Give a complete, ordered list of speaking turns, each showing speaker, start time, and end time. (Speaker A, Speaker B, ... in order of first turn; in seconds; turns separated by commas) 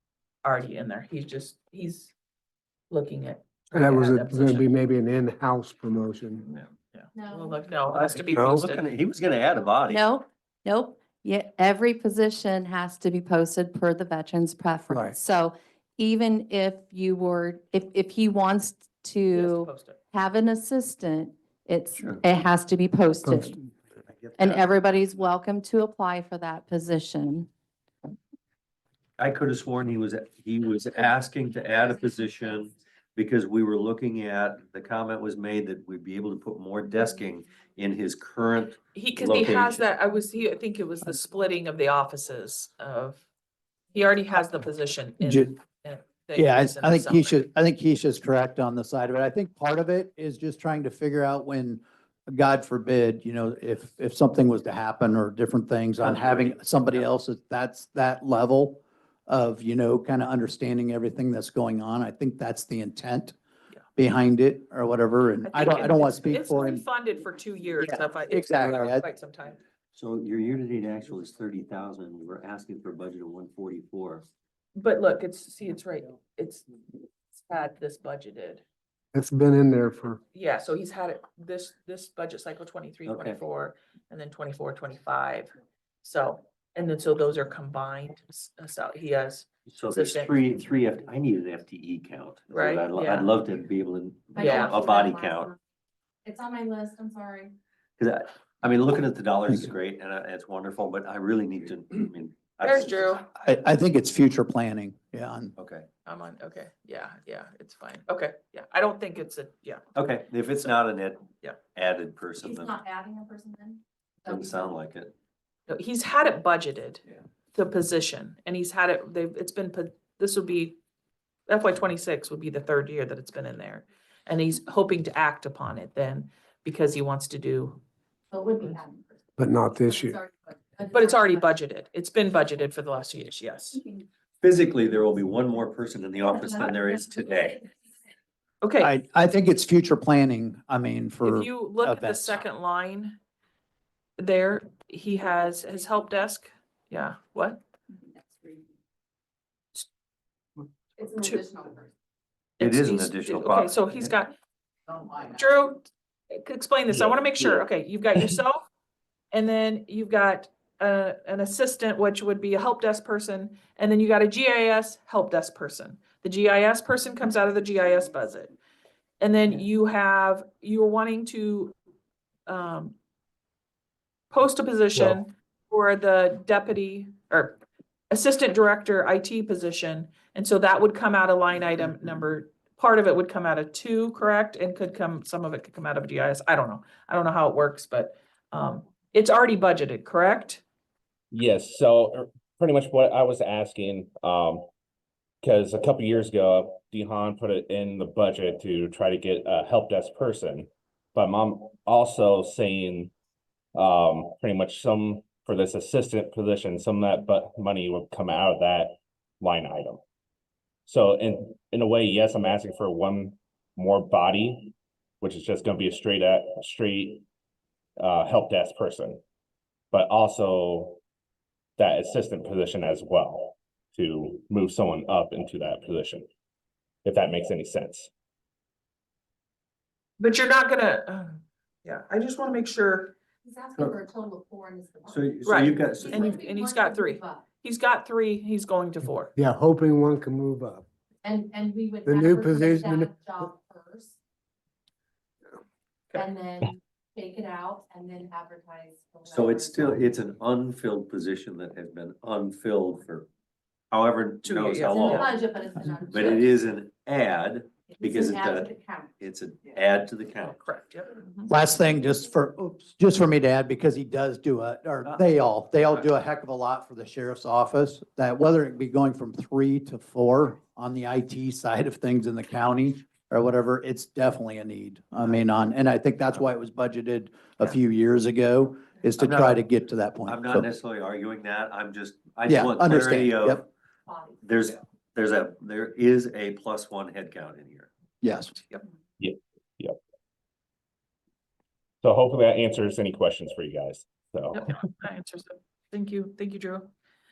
Speaker A: 0.4-2.1, Speaker A: 2.9-4.7, Speaker B: 3.7-6.5, Speaker A: 6.9-8.8, Speaker C: 7.1-7.7, Speaker D: 7.9-10.0, Speaker C: 9.9-23.5, Speaker B: 14.9-15.2, Speaker A: 19.3-20.0, Speaker D: 21.9-22.2, Speaker B: 23.2-23.7, Speaker D: 24.1-24.7, Speaker C: 24.4-27.5, Speaker D: 29.2-39.8, Speaker A: 38.9-43.2, Speaker A: 43.9-47.4, Speaker E: 45.2-45.5, Speaker E: 46.3-63.4, Speaker D: 56.0-56.5, Speaker E: 64.0-66.8, Speaker A: 65.4-69.6, Speaker E: 67.8-69.0, Speaker D: 69.9-74.2, Speaker A: 74.8-76.7, Speaker A: 77.3-78.6, Speaker B: 79.1-80.2, Speaker A: 80.3-85.5, Speaker D: 83.0-83.4, Speaker A: 86.0-90.6, Speaker D: 89.7-95.5, Speaker A: 92.5-93.3, Speaker C: 94.3-95.6, Speaker A: 94.3-94.8, Speaker C: 96.2-97.5, Speaker D: 98.0-103.2, Speaker A: 102.6-103.2, Speaker E: 103.4-105.5, Speaker D: 105.6-105.9, Speaker A: 106.0-109.8, Speaker D: 109.9-112.8, Speaker C: 112.4-114.7, Speaker D: 114.2-115.1, Speaker A: 115.7-117.0, Speaker A: 117.5-120.8, Speaker A: 121.5-127.8, Speaker C: 128.3-129.2, Speaker B: 129.4-130.2, Speaker C: 129.8-131.5, Speaker A: 130.9-133.8, Speaker D: 134.4-137.7, Speaker A: 138.6-138.9, Speaker E: 138.8-142.4, Speaker A: 141.2-143.2, Speaker A: 144.2-147.6, Speaker C: 151.0-151.9, Speaker A: 151.1-151.4, Speaker A: 152.6-154.3, Speaker D: 152.6-154.1, Speaker A: 155.3-158.6, Speaker D: 156.9-157.6, Speaker A: 159.3-168.5, Speaker A: 169.2-171.7, Speaker A: 172.5-172.9, Speaker A: 174.3-190.6, Speaker F: 191.3-194.7, Speaker F: 195.4-203.1, Speaker F: 203.7-210.0, Speaker F: 210.9-217.2, Speaker F: 218.0-219.2, Speaker F: 219.9-221.0, Speaker F: 221.8-226.3, Speaker F: 227.0-228.1, Speaker A: 230.2-233.1, Speaker C: 233.4-237.4, Speaker D: 235.1-236.4, Speaker A: 235.4-239.3, Speaker B: 239.3-240.8, Speaker C: 241.2-244.2, Speaker B: 242.1-243.1, Speaker C: 246.1-250.1, Speaker D: 249.2-253.3, Speaker D: 253.9-255.4, Speaker A: 254.4-255.4, Speaker C: 255.0-256.5, Speaker D: 256.1-260.6, Speaker C: 257.9-259.1, Speaker A: 260.4-261.5, Speaker E: 261.5-280.7, Speaker D: 279.2-279.6, Speaker D: 280.2-283.6, Speaker E: 282.5-283.6, Speaker D: 284.4-287.9, Speaker E: 288.2-288.6, Speaker F: 289.2-289.9, Speaker F: 292.0-294.6, Speaker A: 294.5-296.9